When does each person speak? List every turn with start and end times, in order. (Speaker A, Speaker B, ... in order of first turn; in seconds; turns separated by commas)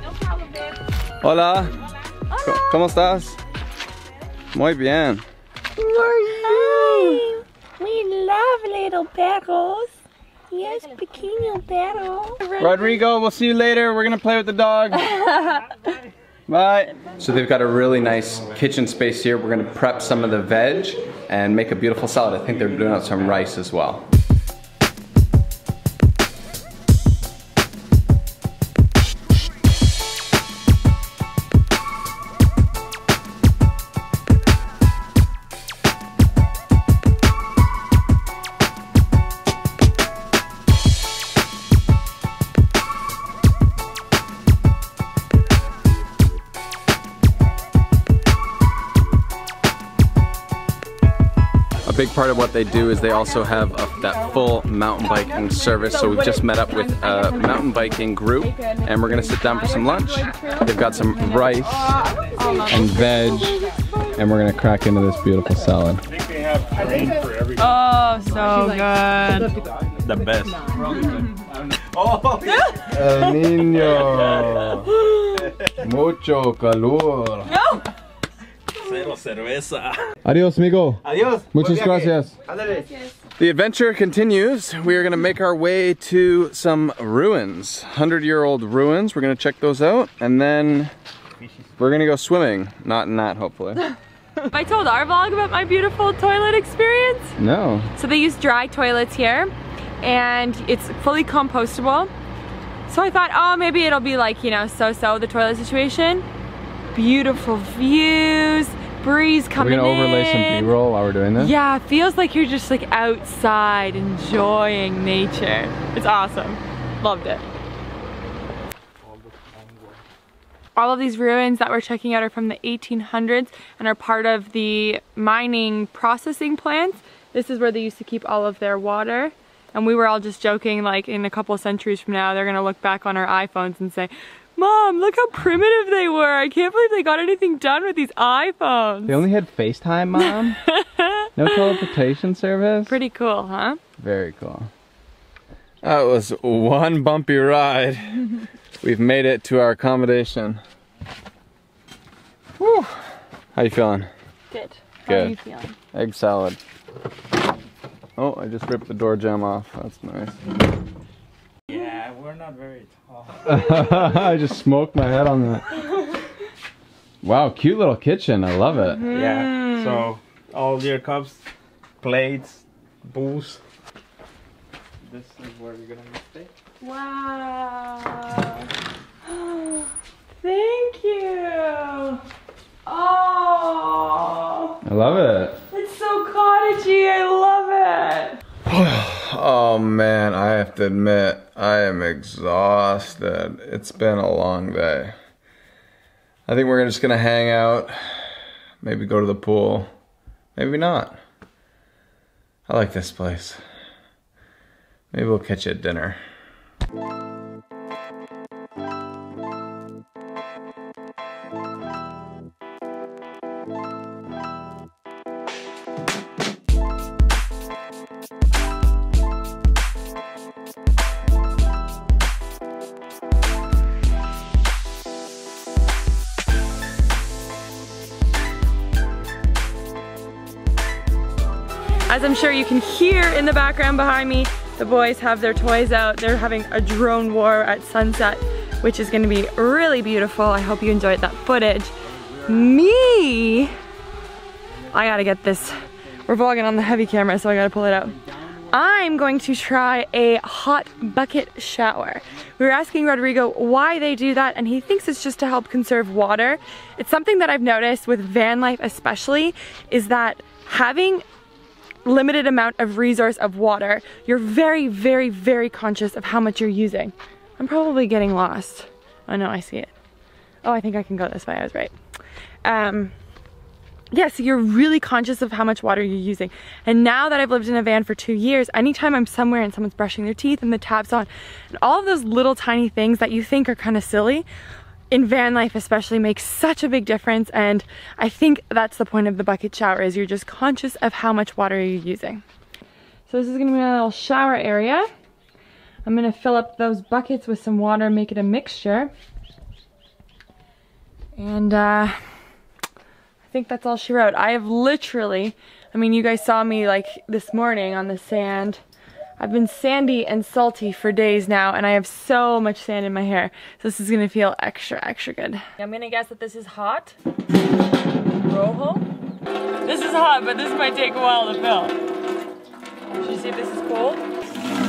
Speaker A: 0.2-0.7, Speaker B: 1.2-1.8, Speaker A: 2.3-2.8, Speaker B: 2.4-3.4, Speaker B: 4.5-5.2, Speaker A: 6.0-7.4, Speaker C: 6.2-7.3, Speaker B: 6.5-6.9, Speaker C: 7.8-9.9, Speaker C: 10.5-12.4, Speaker A: 10.6-11.2, Speaker A: 12.4-13.0, Speaker B: 12.6-15.1, Speaker B: 16.5-24.1, Speaker B: 51.8-61.9, Speaker A: 55.9-57.5, Speaker A: 58.4-60.7, Speaker A: 61.3-64.1, Speaker B: 62.7-66.1, Speaker D: 66.1-67.8, Speaker A: 67.6-69.6, Speaker D: 69.6-72.8, Speaker A: 70.8-71.3, Speaker A: 72.4-73.0, Speaker B: 72.9-74.9, Speaker D: 73.7-74.8, Speaker A: 74.9-75.3, Speaker B: 75.8-77.5, Speaker A: 77.5-77.9, Speaker D: 78.7-80.1, Speaker B: 80.2-82.3, Speaker D: 81.0-82.8, Speaker A: 82.5-83.2, Speaker B: 83.4-90.9, Speaker D: 91.4-91.7, Speaker B: 91.8-93.8, Speaker A: 94.5-97.4, Speaker B: 97.4-97.9, Speaker A: 98.0-102.1, Speaker A: 102.9-106.2, Speaker A: 107.0-110.7, Speaker B: 109.6-111.5, Speaker A: 111.4-117.4, Speaker D: 119.0-120.0, Speaker A: 120.8-139.2, Speaker B: 139.1-140.6, Speaker A: 140.6-141.9, Speaker B: 141.4-142.9, Speaker A: 142.9-143.8, Speaker B: 144.0-144.7, Speaker B: 145.8-148.2, Speaker B: 148.8-150.6, Speaker B: 152.6-153.0, Speaker B: 153.6-154.1, Speaker A: 154.5-155.8, Speaker B: 155.1-155.3, Speaker B: 155.9-156.6, Speaker B: 158.2-160.4, Speaker D: 161.7-163.8, Speaker B: 163.4-165.8, Speaker B: 167.2-169.0, Speaker A: 168.9-170.1, Speaker D: 169.1-171.4, Speaker D: 172.0-173.6, Speaker D: 175.0-176.5, Speaker A: 176.8-178.7, Speaker A: 179.3-182.2, Speaker A: 182.9-184.8, Speaker B: 184.8-185.6, Speaker A: 185.7-188.4, Speaker B: 188.7-195.2, Speaker B: 196.5-198.3, Speaker B: 198.8-199.9, Speaker B: 200.6-201.2, Speaker B: 202.7-203.6, Speaker B: 205.1-206.2, Speaker A: 232.1-243.7, Speaker A: 244.9-261.2, Speaker A: 262.1-269.9, Speaker A: 270.6-271.9, Speaker A: 272.6-273.1, Speaker A: 274.1-284.5, Speaker A: 285.1-292.4, Speaker A: 293.3-295.1, Speaker A: 296.1-299.1, Speaker A: 301.4-302.2, Speaker A: 303.5-308.8, Speaker A: 309.4-317.1, Speaker A: 318.3-319.1, Speaker A: 319.9-322.0, Speaker A: 323.2-324.2